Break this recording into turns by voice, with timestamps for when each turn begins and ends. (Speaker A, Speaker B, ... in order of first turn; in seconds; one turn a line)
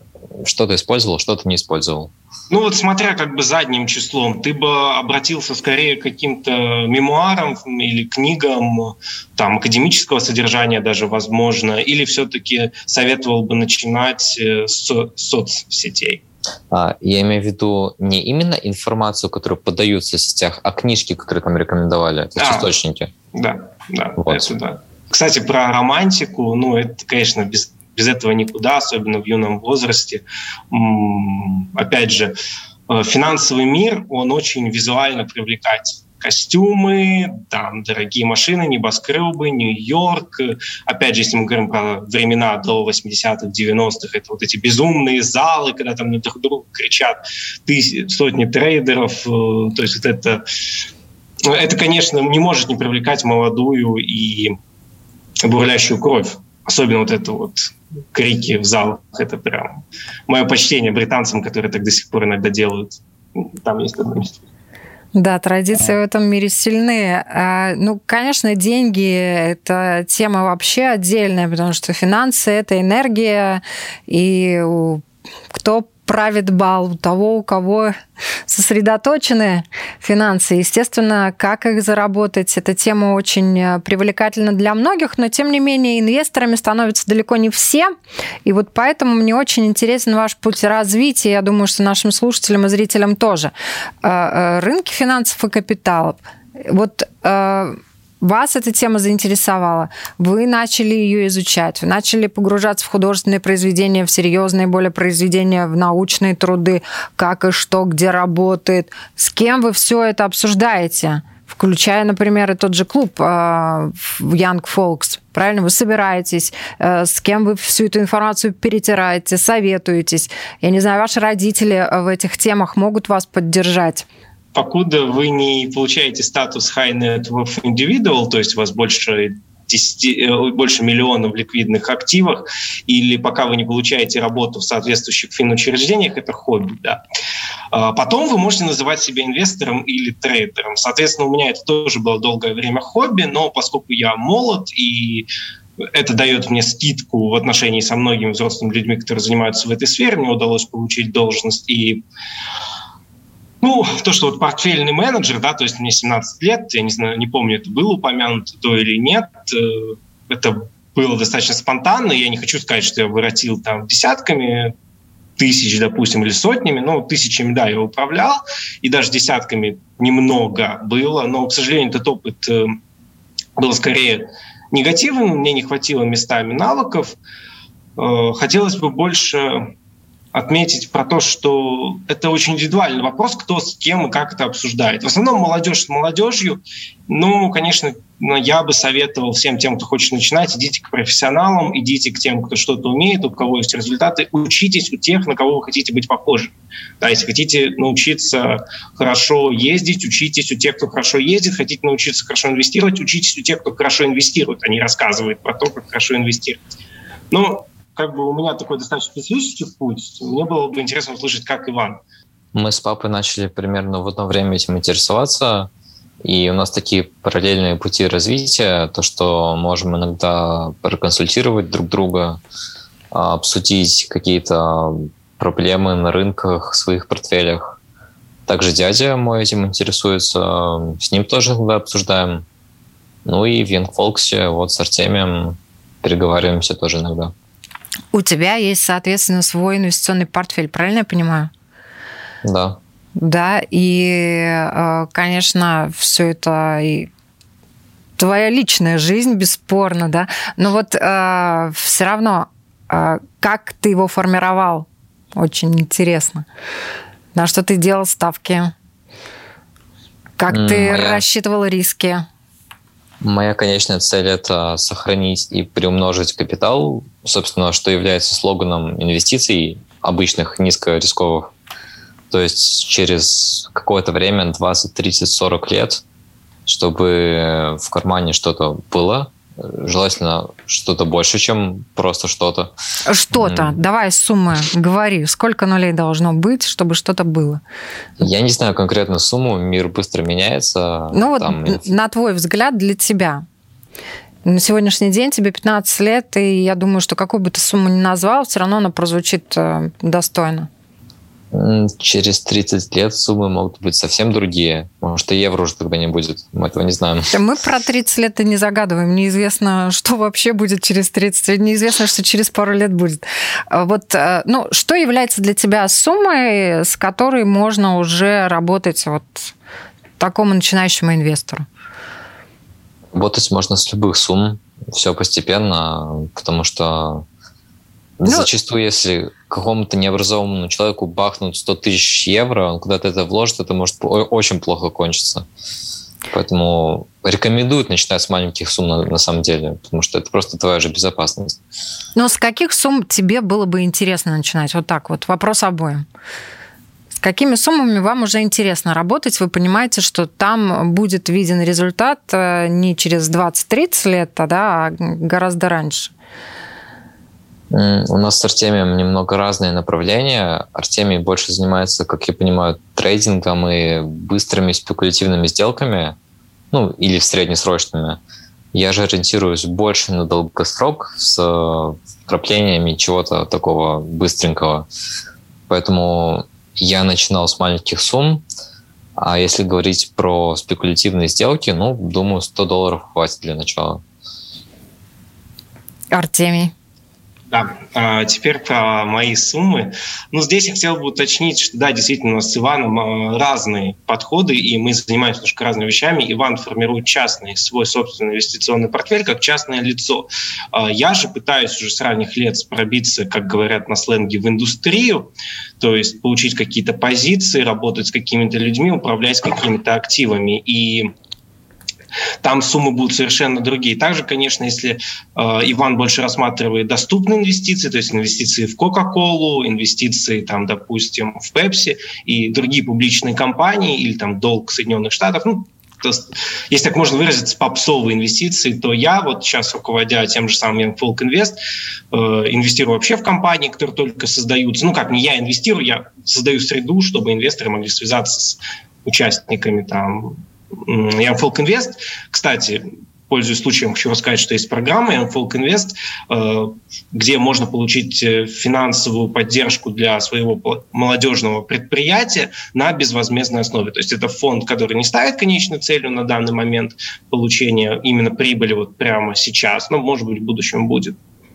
Speaker A: 0.4-2.1
Speaker B: 2.5-16.2
Speaker A: 16.7-23.1
Speaker B: 22.4-22.7
Speaker B: 23.3-32.4
Speaker A: 24.2-24.5
Speaker B: 32.9-50.4
Speaker B: 51.5-54.5
Speaker B: 55.4-64.4
Speaker C: 65.2-78.0
Speaker C: 78.5-87.9
Speaker C: 88.5-124.1
Speaker B: 124.5-137.0
Speaker B: 137.7-145.3
Speaker B: 145.9-152.0
Speaker B: 153.6-164.7
Speaker B: 165.4-172.8
Speaker B: 173.6-177.2
Speaker B: 178.0-179.7
Speaker B: 180.3-206.6
Speaker B: 207.3-212.0
Speaker A: 212.5-215.7
Speaker A: 216.2-222.4
Speaker A: 223.1-227.8
Speaker A: 228.5-232.4
Speaker A: 233.2-237.3
Speaker C: 238.1-241.5
Speaker A: 242.4-242.8
Speaker C: 243.2-247.1
Speaker C: 248.2-256.5
Speaker C: 257.4-258.7
Speaker C: 260.4-262.3
Speaker A: 260.5-261.2
Speaker A: 263.2-271.5
Speaker A: 272.3-276.0
Speaker A: 276.7-282.7
Speaker C: 283.1-287.6
Speaker A: 283.4-283.8
Speaker A: 288.2-291.8
Speaker C: 291.1-293.4
Speaker C: 294.4-300.7
Speaker A: 301.5-307.3
Speaker C: 307.3-319.5
Speaker C: 320.2-321.6
Speaker A: 323.1-327.2
Speaker A: 328.2-335.5
Speaker A: 336.3-341.6
Speaker C: 342.1-346.1
Speaker C: 347.1-356.1
Speaker A: 357.7-366.2
Speaker A: 366.7-368.2
Speaker A: 368.7-374.9
Speaker A: 375.7-378.4
Speaker A: 379.2-384.0
Speaker C: 386.1-386.7
Speaker B: 387.5-411.1
Speaker B: 412.4-431.6
Speaker B: 432.1-461.2